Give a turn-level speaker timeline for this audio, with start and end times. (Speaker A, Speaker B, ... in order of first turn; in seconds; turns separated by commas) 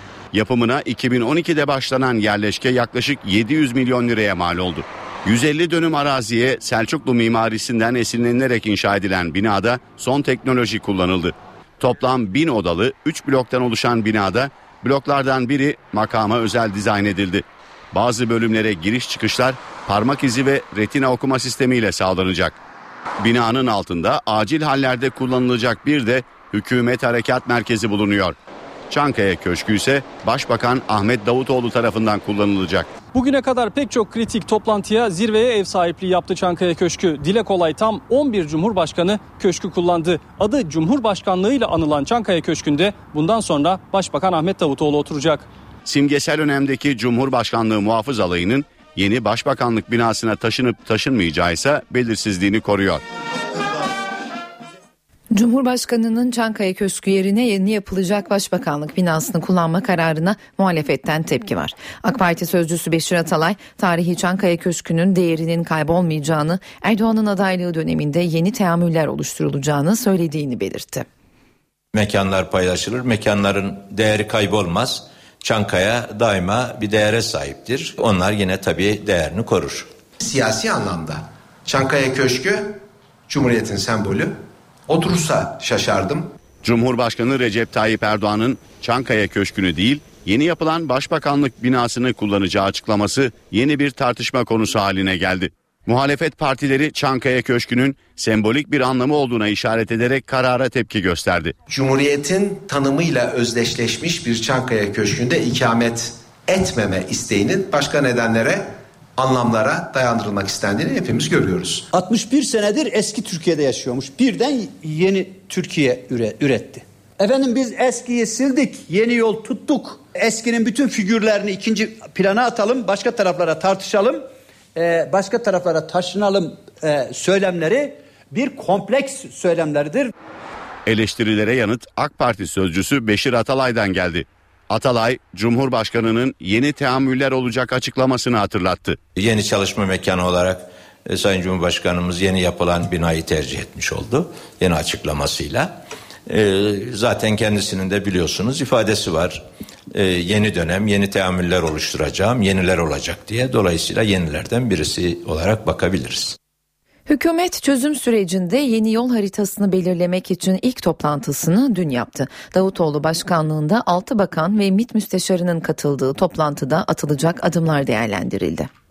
Speaker A: 0.3-22.6, Speaker A: 23.2-28.4, Speaker A: 28.9-32.9, Speaker B: 33.1-45.5, Speaker A: 45.8-53.0, Speaker C: 55.3-71.0, Speaker D: 71.9-79.9, Speaker E: 80.2-84.3, Speaker E: 84.9-86.3, Speaker A: 86.6-101.5, Speaker E: 101.7-111.9, Speaker F: 111.9-124.2, Speaker F: 124.8-130.1, Speaker A: 130.8-139.0, Speaker D: 139.2-156.4, Speaker C: 157.1-168.7